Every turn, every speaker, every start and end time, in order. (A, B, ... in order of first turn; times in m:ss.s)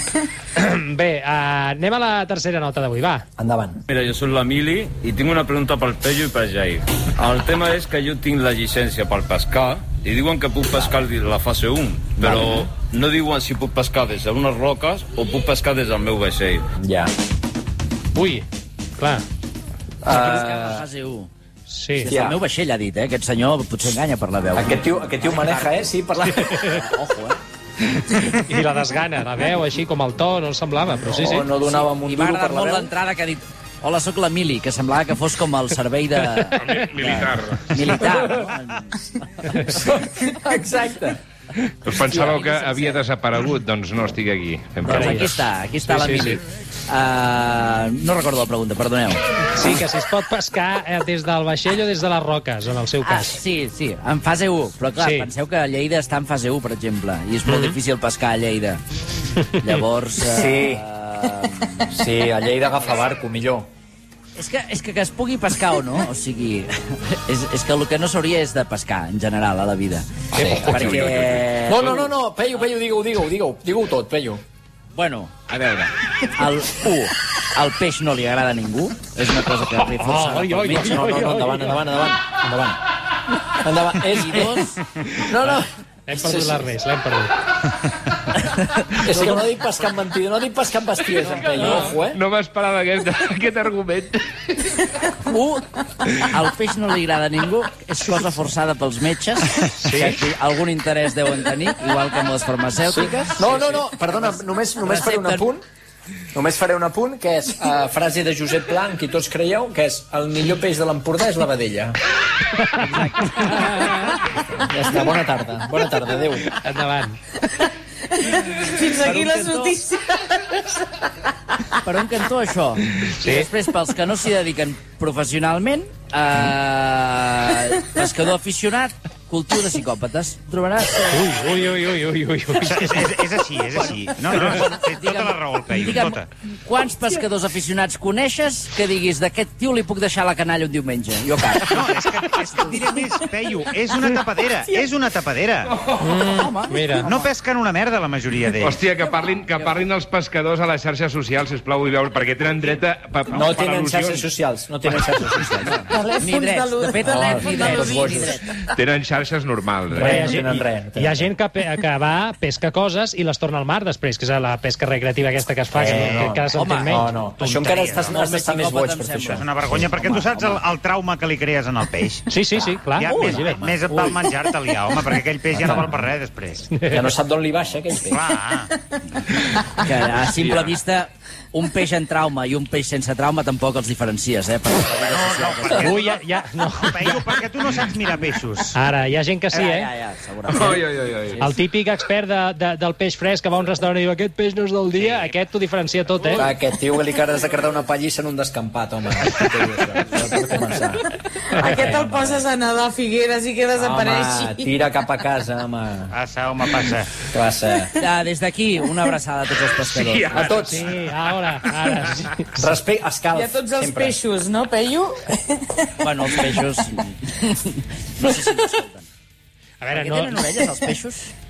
0:00.6-0:03.3 A
0:03.4-0:03.8 B
0:03.9-0:16.6 C
0:10.7-0:11.0 D
0:12.2-0:12.7 B
0:16.8-0:17.1 B
0:18.1-0:18.4 A
0:19.0-0:19.2 A
0:20.0-0:20.8 B
0:20.1-0:21.3 D
0:21.7-0:22.1 A
0:22.0-0:25.9 D
0:22.1-0:22.4 B
0:24.5-0:26.6 B
0:26.6-0:27.4 D
0:28.3-0:31.5 A
0:31.0-0:32.9 B
0:31.6-0:39.2 D
0:36.6-0:38.0 E
0:39.6-0:41.2 B
0:41.8-0:45.4 E
0:42.0-0:43.0 D
0:44.8-0:45.2 A
0:44.8-0:49.2 D
0:45.8-0:46.4 A
0:49.5-0:53.4 A
0:53.0-0:58.8 D
0:55.0-0:55.3 A
0:57.4-0:57.8 A
0:59.6-1:02.0 D
1:00.2-1:00.8 B
1:01.9-1:03.7 B
1:04.4-1:12.1 D
1:10.3-1:10.7 A
1:10.4-1:14.4 B
1:14.9-1:21.0 D
1:19.9-1:21.8 A
1:20.5-1:22.8 B
1:23.5-1:24.6 B
1:24.1-1:24.8 D
1:25.2-1:26.7 B
1:26.1-1:27.4 A
1:28.9-1:32.2 B
1:31.6-1:32.0 A
1:31.6-1:34.8 E
1:35.2-1:35.7 D
1:36.2-1:43.9 D
1:42.9-1:45.6 B
1:44.8-1:45.5 D
1:46.3-1:52.0 B
1:52.8-1:53.9 D
1:53.4-1:54.2 A
1:54.6-1:56.6 B
1:56.5-1:57.2 A
1:58.4-2:00.8 F
1:58.8-1:59.8 D
2:01.8-2:11.2 D
2:03.2-2:03.5 A
2:11.1-2:13.1 A
2:12.6-2:16.3 G
2:13.8-2:21.8 D
2:21.7-2:25.7 G
2:25.8-2:26.1 E
2:26.0-2:27.1 A
2:26.2-2:27.3 D
2:27.0-2:28.8 G
2:28.6-2:34.3 E
2:33.3-2:35.9 B
2:35.7-2:38.4 D
2:35.9-2:38.4 F
2:37.1-2:38.4 B
2:38.7-2:40.4 E
2:39.9-2:41.2 B
2:40.0-2:47.6 A
2:45.7-2:49.8 B
2:45.8-2:46.4 G
2:46.5-2:47.1 D
2:47.4-2:48.3 G
2:47.7-2:50.6 D
2:49.3-2:56.7 G
2:52.3-2:53.7 A
2:53.0-2:54.1 D
2:55.5-2:56.0 B
2:56.7-2:57.1 A
2:56.9-2:58.2 B
2:58.1-2:58.8 G
2:59.7-3:06.0 D
3:00.2-3:00.7 G
3:04.9-3:08.8 G
3:05.7-3:07.4 A
3:08.7-3:09.9 A
3:09.5-3:11.4 D
3:10.5-3:11.5 E
3:11.4-3:16.5 A
3:16.4-3:22.4 B
3:21.6-3:22.0 A
3:21.6-3:24.7 F
3:23.7-3:26.1 B
3:26.1-3:27.1 G
3:27.3-3:28.0 B
3:28.0-3:30.7 D
3:29.9-3:32.3 E
3:30.3-3:30.9 B
3:30.6-3:32.7 A
3:32.6-3:34.2 B
3:33.3-3:35.7 F
3:36.0-3:39.1 D
3:39.8-3:40.5 A
3:39.9-3:41.3 D